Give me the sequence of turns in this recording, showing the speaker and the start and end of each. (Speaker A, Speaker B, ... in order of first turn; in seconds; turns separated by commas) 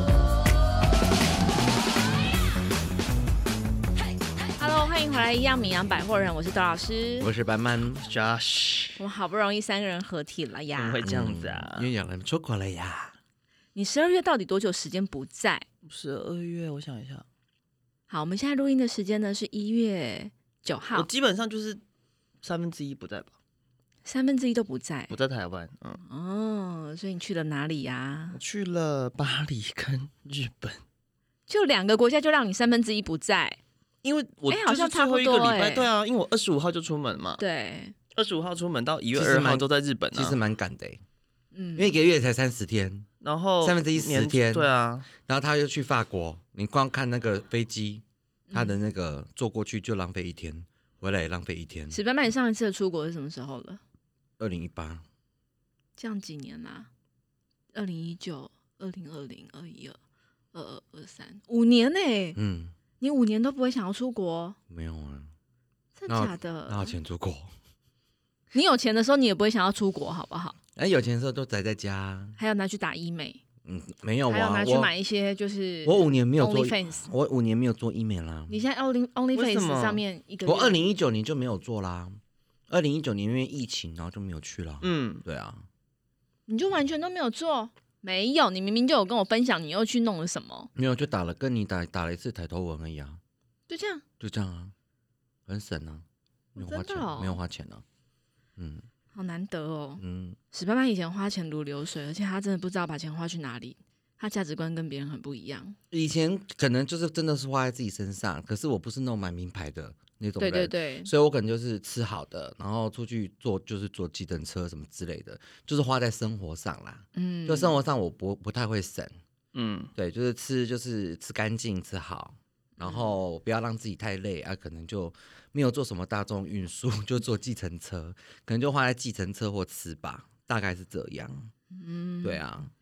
Speaker A: 4.6-7.3, Speaker B: 7.2-8.0, Speaker C: 8.0-9.0, Speaker A: 9.0-11.1, Speaker C: 10.7-11.9, Speaker B: 11.0-13.2, Speaker A: 13.7-15.6, Speaker C: 15.8-17.2, Speaker A: 18.1-21.1, Speaker C: 20.9-21.8, Speaker C: 22.4-23.3, Speaker A: 24.0-25.1, Speaker C: 25.1-26.0, Speaker A: 26.1-28.4, Speaker C: 28.3-30.8, Speaker A: 31.5-33.6, Speaker C: 34.0-37.4, Speaker A: 34.5-35.9, Speaker A: 37.4-37.9, Speaker C: 38.1-40.4, Speaker B: 39.1-41.0, Speaker A: 41.5-41.9, Speaker B: 41.8-43.1, Speaker C: 43.2-45.1, Speaker B: 43.6-52.0, Speaker A: 51.9-53.8, Speaker B: 54.4-55.0, Speaker A: 56.0-56.9, Speaker A: 57.7-60.0, Speaker A: 60.5-62.4, Speaker B: 62.4-62.7, Speaker A: 63.0-64.6, Speaker B: 64.7-65.3, Speaker A: 66.0-66.9, Speaker B: 66.1-67.5, Speaker A: 68.5-70.6, Speaker B: 70.8-72.4, Speaker A: 72.4-73.4, Speaker B: 73.6-74.9, Speaker A: 74.3-77.1, Speaker B: 75.8-78.6, Speaker A: 78.5-80.8, Speaker C: 79.3-80.0, Speaker B: 80.5-82.2, Speaker B: 82.7-85.6, Speaker C: 84.8-85.2, Speaker A: 86.5-90.7, Speaker B: 90.8-93.2, Speaker A: 93.7-94.0, Speaker B: 94.2-94.7, Speaker B: 95.5-96.0, Speaker A: 96.5-97.4, Speaker B: 96.5-97.8, Speaker B: 98.6-98.8, Speaker A: 99.1-105.8, Speaker B: 100.0-100.4, Speaker B: 105.9-119.1, Speaker A: 110.4-111.1, Speaker A: 117.1-117.8, Speaker C: 119.5-119.9, Speaker B: 120.0-131.5, Speaker A: 122.8-123.1, Speaker A: 131.7-132.4, Speaker B: 132.2-132.7